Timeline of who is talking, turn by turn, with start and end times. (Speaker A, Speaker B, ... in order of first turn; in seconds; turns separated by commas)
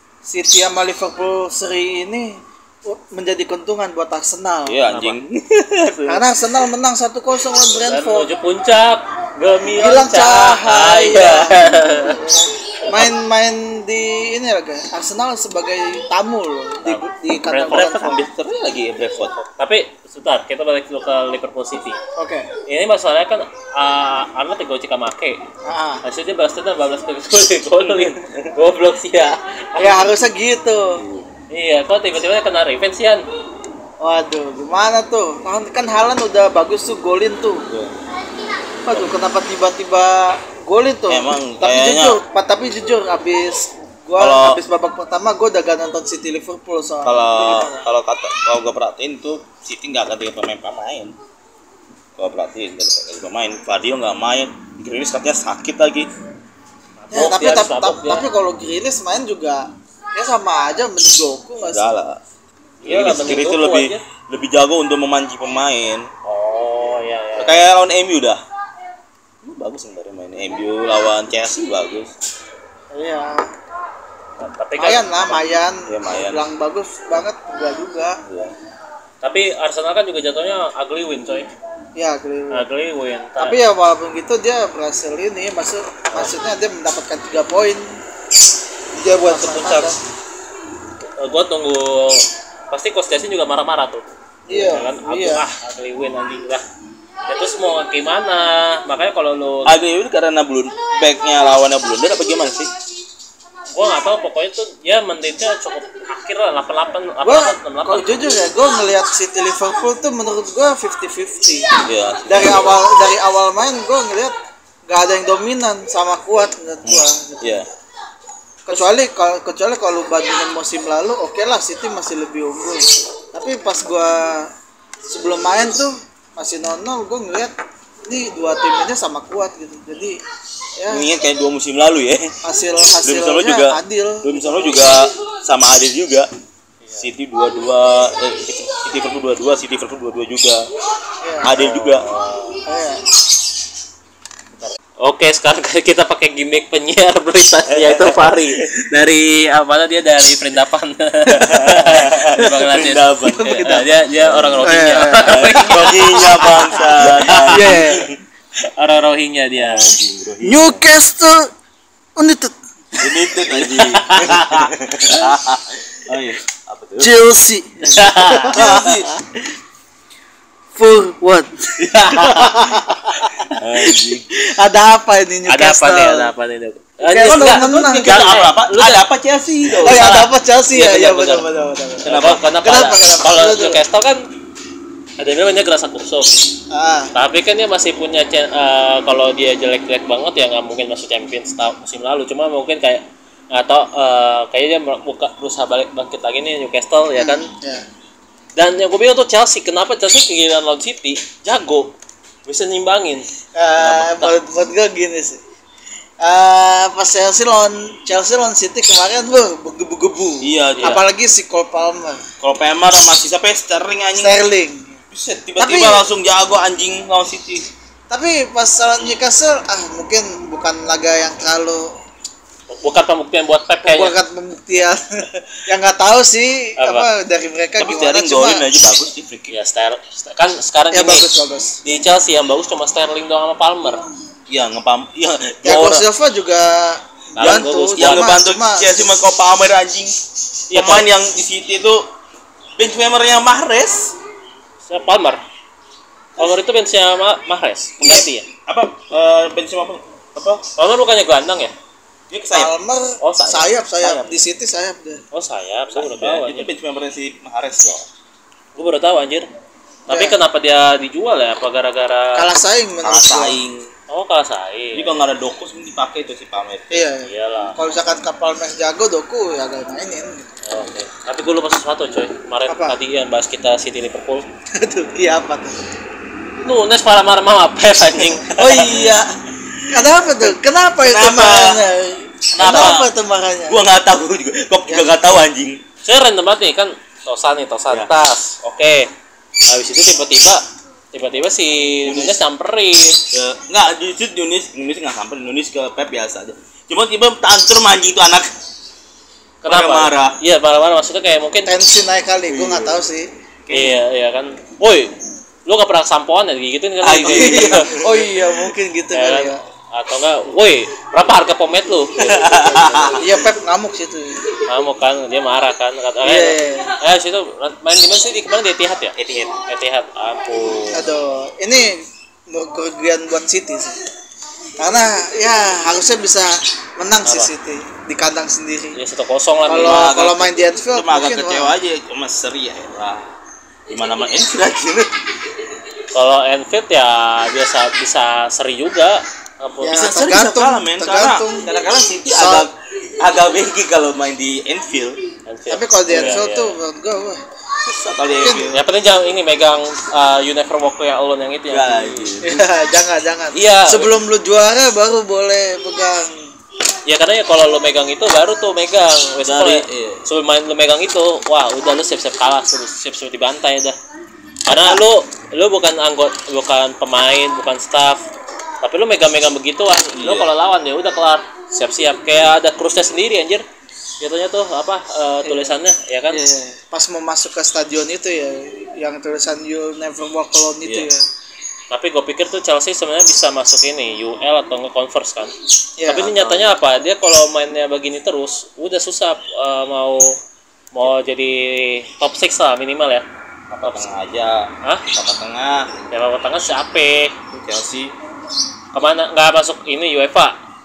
Speaker A: 0.2-4.8, Speaker B: 4.7-6.2, Speaker C: 4.9-5.2, Speaker A: 6.1-8.3, Speaker C: 7.9-12.2, Speaker A: 9.7-18.2, Speaker C: 17.4-18.1, Speaker B: 17.7-19.4, Speaker C: 19.6-22.0, Speaker A: 22.1-22.5, Speaker C: 22.6-25.4, Speaker A: 25.6-26.0, Speaker C: 26.0-30.1, Speaker B: 27.8-28.5, Speaker A: 29.8-31.0, Speaker B: 31.0-31.3, Speaker C: 31.5-33.2, Speaker A: 34.0-37.6, Speaker A: 38.8-47.9, Speaker B: 41.1-42.2, Speaker B: 44.2-44.6, Speaker B: 47.0-51.1, Speaker B: 52.2-56.1, Speaker C: 57.0-58.3, Speaker A: 57.1-61.9, Speaker B: 61.6-62.2, Speaker C: 62.8-64.0, Speaker B: 62.8-66.1, Speaker C: 66.2-67.6, Speaker B: 67.4-68.4, Speaker B: 69.4-72.1, Speaker A: 72.9-73.5, Speaker C: 74.4-75.4, Speaker A: 74.8-78.2, Speaker B: 75.9-76.4, Speaker B: 78.3-78.5, Speaker C: 79.2-81.5, Speaker A: 82.0-82.6, Speaker C: 82.5-83.6, Speaker A: 83.4-87.8, Speaker A: 89.0-90.0, Speaker C: 89.2-89.9, Speaker C: 91.2-96.6, Speaker A: 94.5-95.4, Speaker C: 97.3-99.8, Speaker B: 99.7-102.7, Speaker C: 103.7-108.3, Speaker A: 107.2-111.7, Speaker B: 111.9-112.7, Speaker A: 112.2-114.3, Speaker A: 114.9-117.6, Speaker B: 116.8-117.7, Speaker A: 118.7-124.5, Speaker A: 125.0-127.5, Speaker A: 128.1-130.2, Speaker A: 130.8-131.1, Speaker B: 130.9-132.3, Speaker A: 132.4-134.3, Speaker B: 133.0-136.3, Speaker C: 136.8-137.1, Speaker B: 137.0-140.6, Speaker A: 141.2-141.5, Speaker B: 141.4-142.1, Speaker C: 141.5-142.6, Speaker A: 142.6-143.0, Speaker C: 144.6-157.6, Speaker B: 147.7-148.6, Speaker B: 151.3-158.2, Speaker A: 153.3-153.8, Speaker A: 154.6-155.4, Speaker A: 157.0-158.1, Speaker C: 158.6-159.9, Speaker B: 159.6-160.8, Speaker A: 160.4-161.5, Speaker A: 162.2-162.5, Speaker B: 163.0-167.1, Speaker C: 163.5-164.7, Speaker A: 167.0-169.3, Speaker C: 167.8-168.6, Speaker B: 168.5-169.1, Speaker A: 170.7-176.3, Speaker C: 171.8-173.6, Speaker B: 173.6-174.2, Speaker C: 175.5-179.0, Speaker A: 177.0-178.1, Speaker B: 177.2-180.3, Speaker A: 179.8-183.8, Speaker C: 179.8-180.2, Speaker C: 180.7-181.4, Speaker C: 182.0-184.2, Speaker B: 182.1-182.4, Speaker C: 185.2-186.3, Speaker A: 186.7-187.1, Speaker C: 187.1-197.5, Speaker A: 197.1-197.8, Speaker C: 198.6-201.9, Speaker C: 202.4-203.3, Speaker A: 203.5-205.4, Speaker C: 203.8-204.3, Speaker A: 206.2-212.2, Speaker B: 210.4-211.0, Speaker B: 212.4-214.4, Speaker A: 214.2-215.0, Speaker B: 215.1-217.7, Speaker A: 215.6-216.0, Speaker A: 218.1-221.9, Speaker C: 222.7-224.1, Speaker A: 223.8-228.6, Speaker C: 226.8-227.1, Speaker B: 227.8-229.5, Speaker C: 229.5-231.3, Speaker A: 230.9-231.8, Speaker C: 231.8-234.0, Speaker B: 234.5-236.1, Speaker A: 235.6-239.0, Speaker C: 237.4-238.3, Speaker B: 237.4-240.1, Speaker C: 240.7-241.1, Speaker B: 240.7-242.0, Speaker B: 242.8-244.1, Speaker C: 244.9-245.4, Speaker C: 246.4-248.5, Speaker B: 248.0-250.6, Speaker C: 250.6-251.7, Speaker B: 252.3-252.7, Speaker A: 252.5-255.2, Speaker C: 253.2-254.2, Speaker C: 255.3-256.7, Speaker B: 255.9-258.0, Speaker C: 258.8-259.5, Speaker A: 260.1-260.4, Speaker C: 260.1-262.4, Speaker A: 262.3-263.6, Speaker B: 263.0-263.9, Speaker C: 264.1-265.2, Speaker B: 264.9-267.1, Speaker A: 266.9-270.5, Speaker C: 267.2-267.8, Speaker C: 270.7-274.4, Speaker A: 272.7-273.0, Speaker A: 274.7-275.8, Speaker C: 276.6-279.1, Speaker A: 278.5-279.2, Speaker B: 278.5-280.5, Speaker A: 279.9-283.8, Speaker B: 281.0-281.8, Speaker B: 282.6-283.1, Speaker B: 283.7-285.8, Speaker C: 286.0-289.1, Speaker C: 289.7-293.2, Speaker B: 292.1-292.4, Speaker B: 293.3-298.5, Speaker C: 299.6-301.7, Speaker B: 299.7-300.4, Speaker A: 301.6-303.3, Speaker B: 302.5-302.9, Speaker B: 303.7-304.0, Speaker C: 303.7-305.1, Speaker C: 305.6-307.9, Speaker B: 307.0-308.5, Speaker A: 307.2-309.6, Speaker C: 309.1-313.1, Speaker B: 312.2-313.4, Speaker A: 312.4-314.6, Speaker C: 314.6-321.1, Speaker A: 316.2-316.9, Speaker B: 319.1-319.6, Speaker A: 320.9-324.0, Speaker A: 324.8-329.0, Speaker C: 327.2-327.5, Speaker C: 328.9-330.1, Speaker A: 329.7-331.8, Speaker B: 329.7-333.3, Speaker B: 333.9-335.1, Speaker C: 336.1-340.1, Speaker A: 339.8-341.7, Speaker B: 339.9-345.2, Speaker A: 342.3-342.7, Speaker C: 345.5-346.8, Speaker A: 345.7-347.4, Speaker B: 347.9-348.8, Speaker A: 348.4-348.7, Speaker C: 348.7-352.3, Speaker B: 351.7-352.6, Speaker A: 352.4-356.5, Speaker C: 353.5-354.1, Speaker C: 357.1-363.9, Speaker B: 359.4-360.2, Speaker C: 364.6-368.2, Speaker A: 364.7-365.0, Speaker C: 368.8-373.6, Speaker B: 370.1-370.5, Speaker C: 374.2-376.4, Speaker A: 375.4-375.8, Speaker A: 376.3-381.2, Speaker C: 381.9-385.5, Speaker A: 386.0-386.4, Speaker C: 386.1-390.3, Speaker B: 386.4-386.7, Speaker C: 390.9-393.2, Speaker B: 393.7-395.9, Speaker C: 393.8-394.1, Speaker C: 396.1-397.4, Speaker B: 397.5-398.1, Speaker C: 398.9-400.5